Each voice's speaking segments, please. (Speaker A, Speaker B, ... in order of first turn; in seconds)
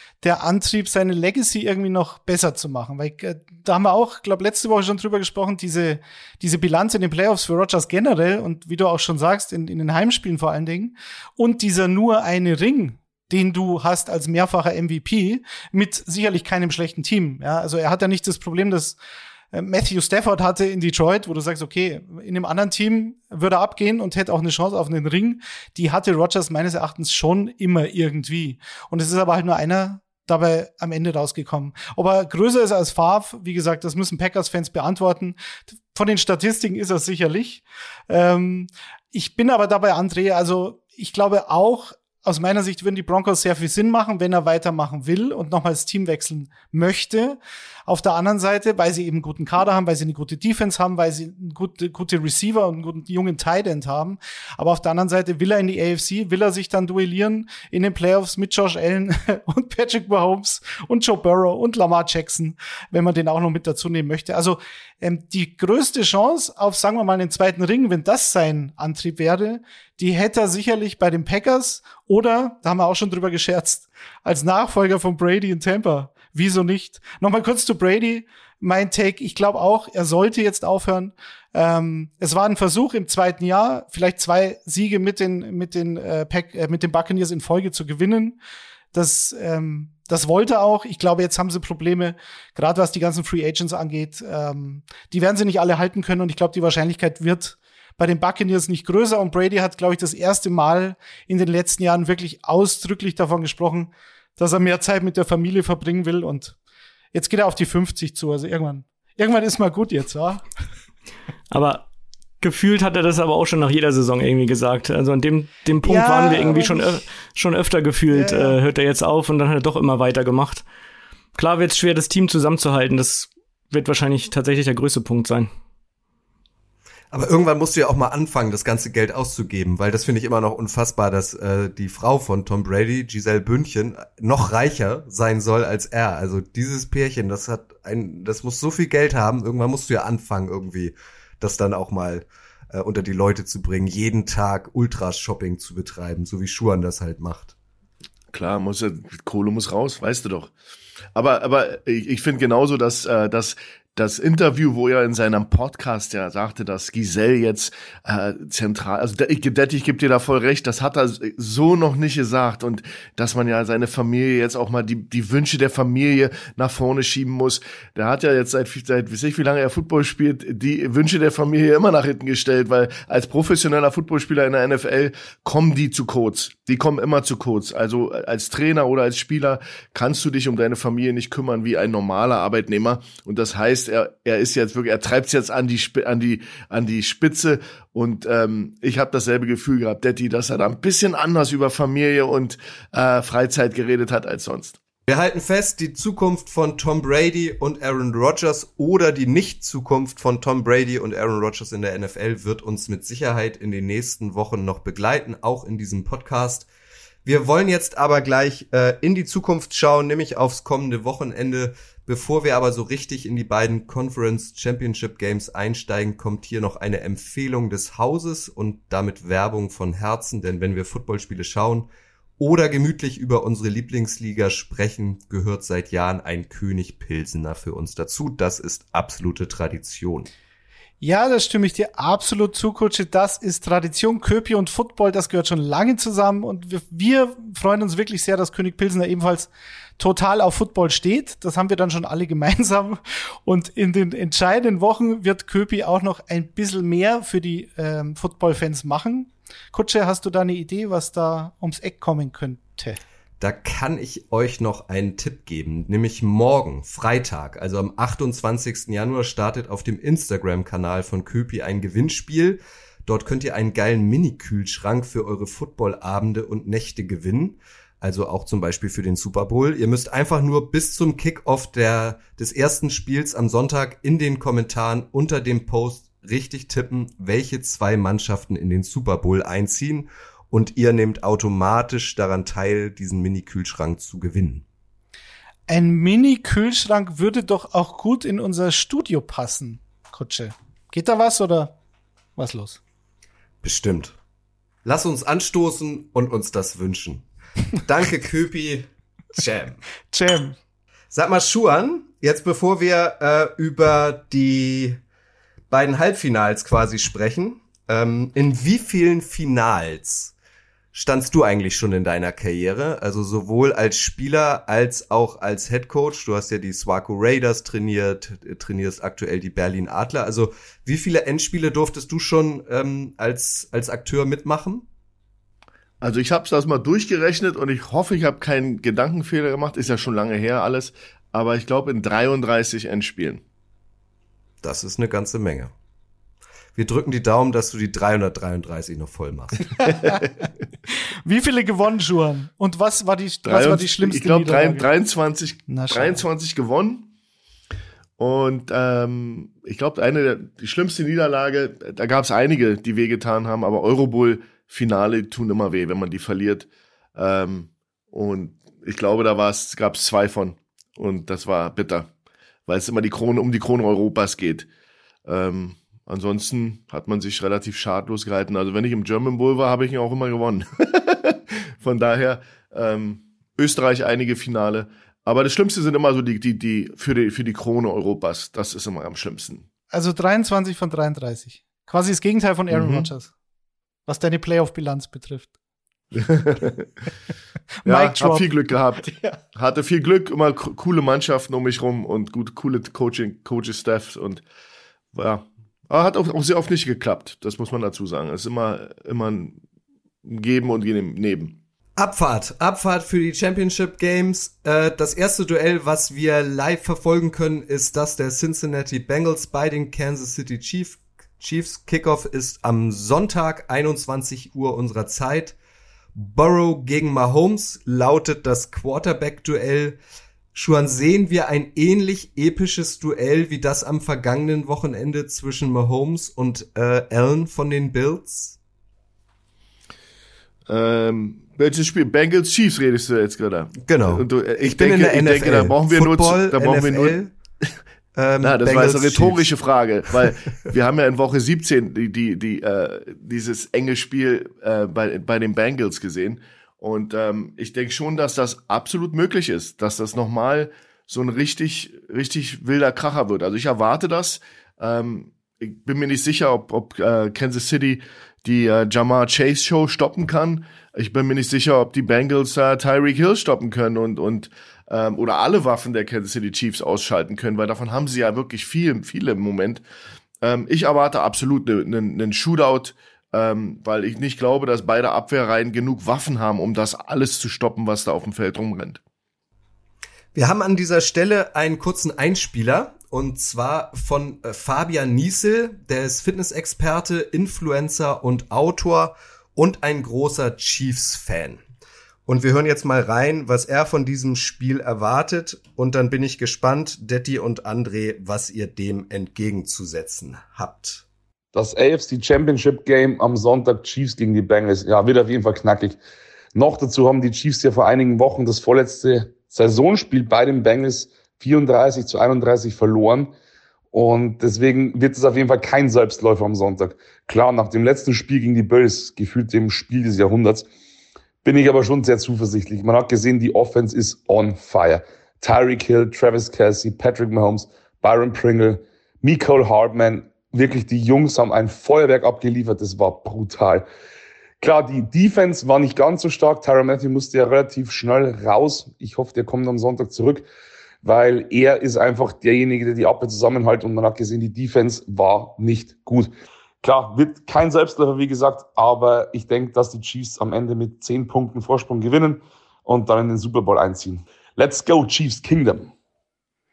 Speaker A: 0.2-19.0, 19.5-35.4, 35.9-88.4, 88.9-106.6, 107.1-110.4, 115.8-117.0, 118.1-118.6, 231.0-253.0, 285.7-291.7, 292.4-292.8, 300.1-300.6, 341.3-344.9, 345.7-346.2, 379.9-383.3, 384.1-385.5, 387.8-388.5, 389.0-389.4
Speaker B: 111.5-111.9, 112.4-120.6, 121.4-125.5
Speaker C: 127.1-147.5, 195.1-206.7, 207.2-230.3, 253.4-284.6, 293.6-294.2, 294.9-297.2, 297.8-299.8, 301.1-305.0, 305.7-310.3, 310.9-324.9, 334.6-335.7, 336.8-340.0, 402.0-415.6, 416.2-420.0, 420.5-428.6, 433.8-437.3, 438.1-439.5, 480.4-491.6, 492.3-501.0
Speaker D: 148.3-150.5, 151.2-194.8, 326.0-333.4, 343.4-347.1, 348.2-362.1, 362.7-364.7, 365.3-379.6, 382.7-383.1, 386.2-386.9, 387.9-394.4, 395.1-399.6, 400.2-401.6, 430.7-437.2, 438.4-469.8, 470.4-479.0
Speaker E: 501.5-506.0, 506.6-513.3, 513.9-520.7, 521.4-533.9, 534.6-540.5, 541.0-546.3, 546.8-555.9